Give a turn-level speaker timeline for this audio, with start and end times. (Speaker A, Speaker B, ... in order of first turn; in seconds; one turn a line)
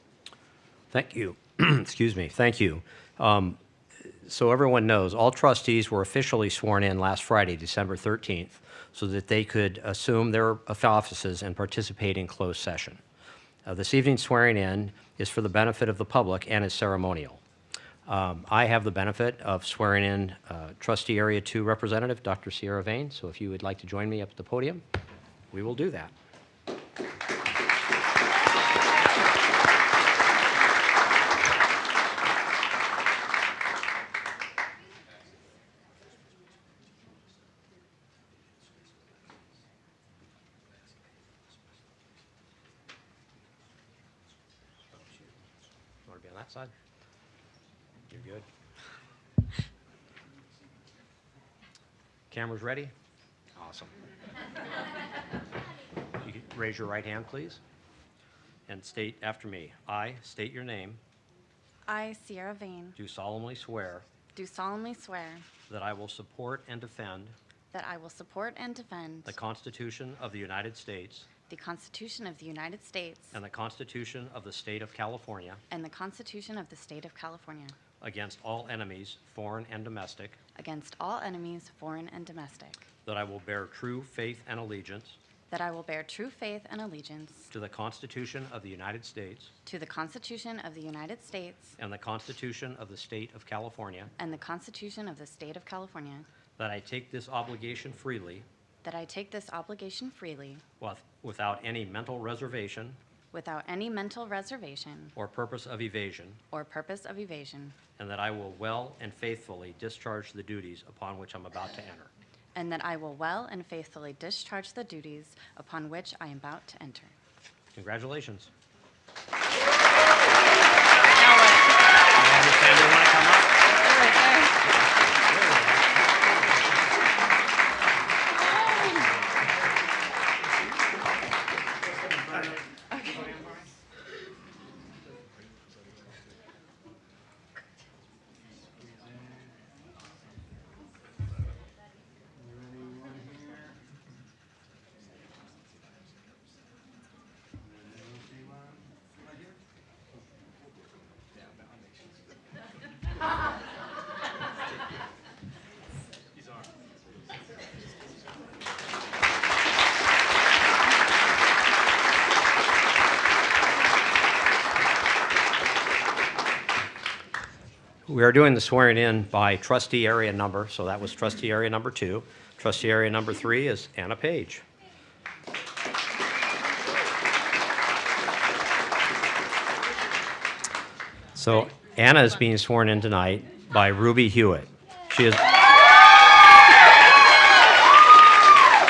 Speaker A: 0.9-3.6
Speaker A: 4.2-13.0
Speaker A: 13.7-17.4
Speaker A: 18.1-24.8
Speaker A: 25.5-26.1
Speaker A: 46.0-46.7
Speaker A: 48.1-48.5
Speaker A: 52.3-52.9
Speaker A: 53.5-53.9
Speaker A: 56.2-57.6
Speaker A: 58.7-61.0
Speaker B: 61.9-63.0
Speaker A: 63.0-64.0
Speaker B: 64.3-65.4
Speaker A: 65.7-67.3
Speaker B: 67.7-69.3
Speaker A: 69.2-71.3
Speaker B: 71.5-73.4
Speaker A: 73.3-75.6
Speaker B: 75.7-77.8
Speaker A: 78.0-80.4
Speaker B: 80.5-82.9
Speaker A: 83.0-85.2
Speaker B: 85.5-87.5
Speaker A: 87.5-89.5
Speaker B: 89.7-91.8
Speaker A: 91.8-94.1
Speaker B: 94.2-96.3
Speaker A: 96.6-98.5
Speaker B: 98.8-100.6
Speaker A: 100.8-103.0
Speaker B: 103.3-105.1
Speaker A: 105.2-106.4
Speaker B: 106.5-107.8
Speaker A: 108.0-112.1
Speaker B: 112.5-117.1
Speaker A: 117.7-118.5
Speaker B: 121.2-121.6
Speaker A: 122.1-123.6
Speaker B: 123.8-124.5
Speaker A: 125.2-126.4
Speaker A: 168.1-174.6
Speaker A: 181.3-185.4